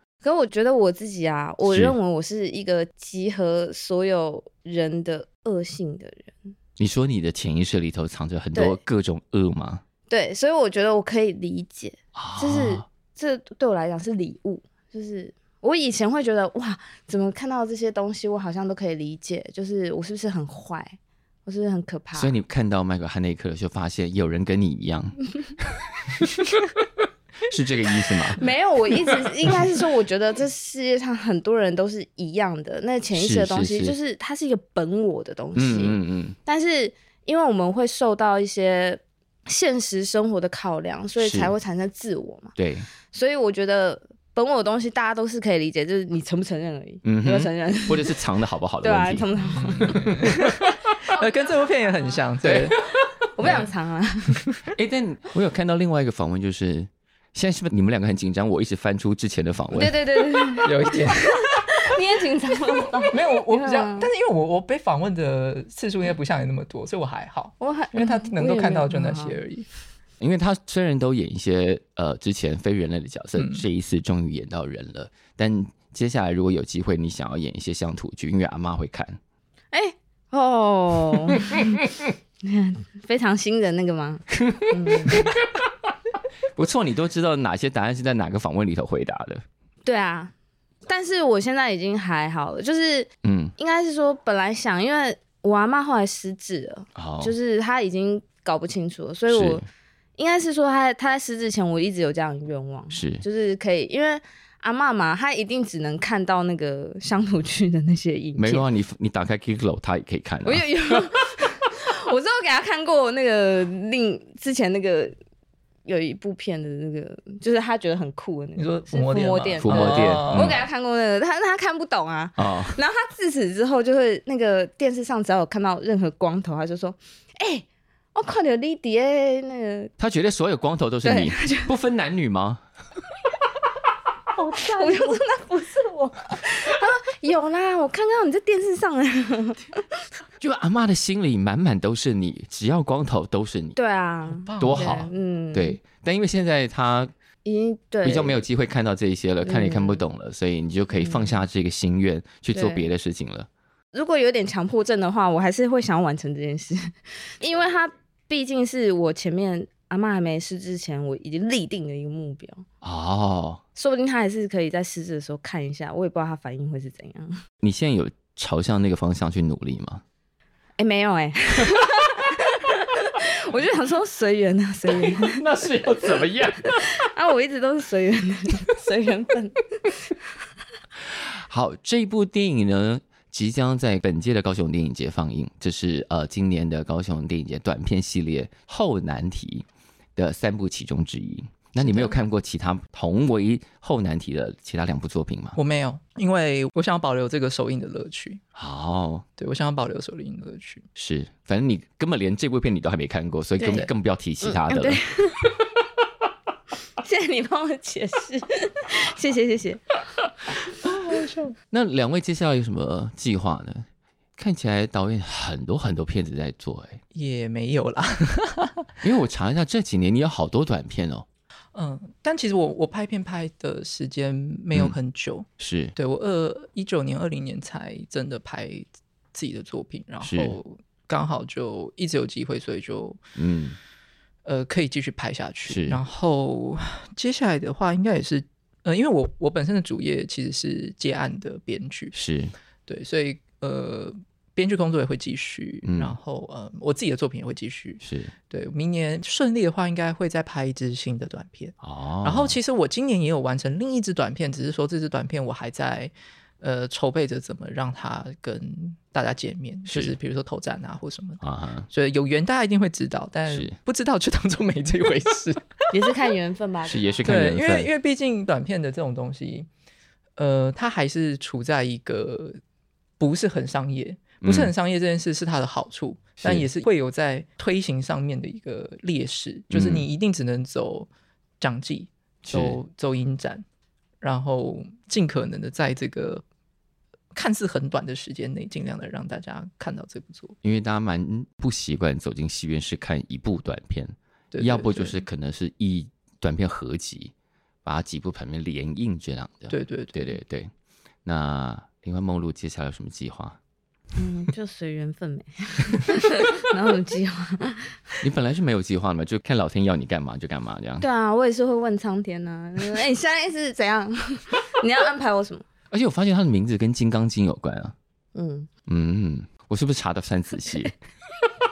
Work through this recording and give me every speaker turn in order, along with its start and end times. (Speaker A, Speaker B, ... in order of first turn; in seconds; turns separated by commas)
Speaker A: 0.2-6.5, Speaker B: 1.6-2.0, Speaker B: 6.8-9.8, Speaker A: 10.1-22.3, Speaker B: 12.2-12.8, Speaker B: 22.1-26.6, Speaker B: 27.5-28.4, Speaker A: 28.4-42.6, Speaker B: 29.0-29.7, Speaker B: 33.1-34.0, Speaker B: 35.6-36.4, Speaker B: 41.2-41.5, Speaker B: 42.6-42.9, Speaker A: 43.1-48.2, Speaker B: 47.0-50.6, Speaker A: 48.8-50.2, Speaker C: 49.5-52.8, Speaker B: 52.4-52.8, Speaker A: 53.4-54.5, Speaker B: 53.4-53.7, Speaker B: 54.7-60.0, Speaker A: 59.7-64.1, Speaker C: 60.6-61.6, Speaker C: 63.0-69.7, Speaker A: 67.6-69.4, Speaker B: 70.2-79.2, Speaker C: 73.4-73.7, Speaker A: 79.7-81.8, Speaker B: 81.3-82.1, Speaker A: 82.4-85.4, Speaker B: 84.3-85.6, Speaker B: 86.6-89.4, Speaker A: 89.8-90.3, Speaker A: 90.9-99.6, Speaker B: 93.2-93.5, Speaker B: 97.0-97.3, Speaker B: 99.3-99.6, Speaker A: 100.2-108.7, Speaker B: 102.9-103.2, Speaker B: 108.4-110.7, Speaker A: 110.5-115.2, Speaker A: 115.8-129.9, Speaker C: 118.6-120.6, Speaker B: 119.6-120.6, Speaker B: 122.4-122.8, Speaker B: 130.0-132.6, Speaker A: 131.0-131.7, Speaker C: 134.4-135.2, Speaker A: 134.6-140.0, Speaker B: 140.4-143.8, Speaker A: 143.8-145.8, Speaker C: 144.3-145.0, Speaker B: 144.6-147.1, Speaker A: 147.4-148.4, Speaker B: 148.0-153.5, Speaker A: 149.4-150.1, Speaker A: 151.0-151.4, Speaker A: 152.5-152.9, Speaker A: 153.9-162.7, Speaker B: 162.8-163.6, Speaker A: 163.8-167.4, Speaker B: 167.6-170.0, Speaker A: 170.8-175.5, Speaker B: 174.9-176.9, Speaker A: 176.6-180.2, Speaker B: 181.1-195.6, Speaker C: 191.8-192.2, Speaker C: 195.6-198.4, Speaker B: 198.6-199.2, Speaker C: 199.4-200.9, Speaker B: 201.0-205.0, Speaker A: 203.6-203.9, Speaker A: 204.4-205.6, Speaker A: 207.0-209.8, Speaker C: 210.8-211.6, Speaker B: 211.7-217.0, Speaker C: 217.1-218.9, Speaker B: 219.0-221.3, Speaker C: 221.7-233.2, Speaker B: 225.6-225.9, Speaker B: 230.2-230.6, Speaker B: 233.4-233.8, Speaker C: 234.4-242.2, Speaker B: 235.7-236.0, Speaker B: 242.1-242.5, Speaker C: 242.9-265.9, Speaker B: 245.8-246.2, Speaker B: 248.0-248.3, Speaker B: 251.8-252.6, Speaker B: 259.9-260.1, Speaker B: 261.4-261.9, Speaker B: 263.5-263.8, Speaker A: 265.9-267.1, Speaker B: 266.9-267.9, Speaker C: 267.2-269.7, Speaker C: 270.4-272.6, Speaker C: 273.2-281.1, Speaker B: 274.4-274.7, Speaker B: 279.7-280.1, Speaker C: 281.6-283.6, Speaker B: 282.5-282.8, Speaker C: 284.2-286.4, Speaker C: 287.3-290.6, Speaker B: 290.6-297.3, Speaker C: 294.5-295.2, Speaker B: 297.8-300.7, Speaker C: 299.7-300.4, Speaker B: 301.2-303.6, Speaker A: 304.2-308.2, Speaker B: 308.2-311.1, Speaker A: 311.0-315.6, Speaker B: 315.9-317.9, Speaker A: 318.4-318.7, Speaker B: 318.9-320.9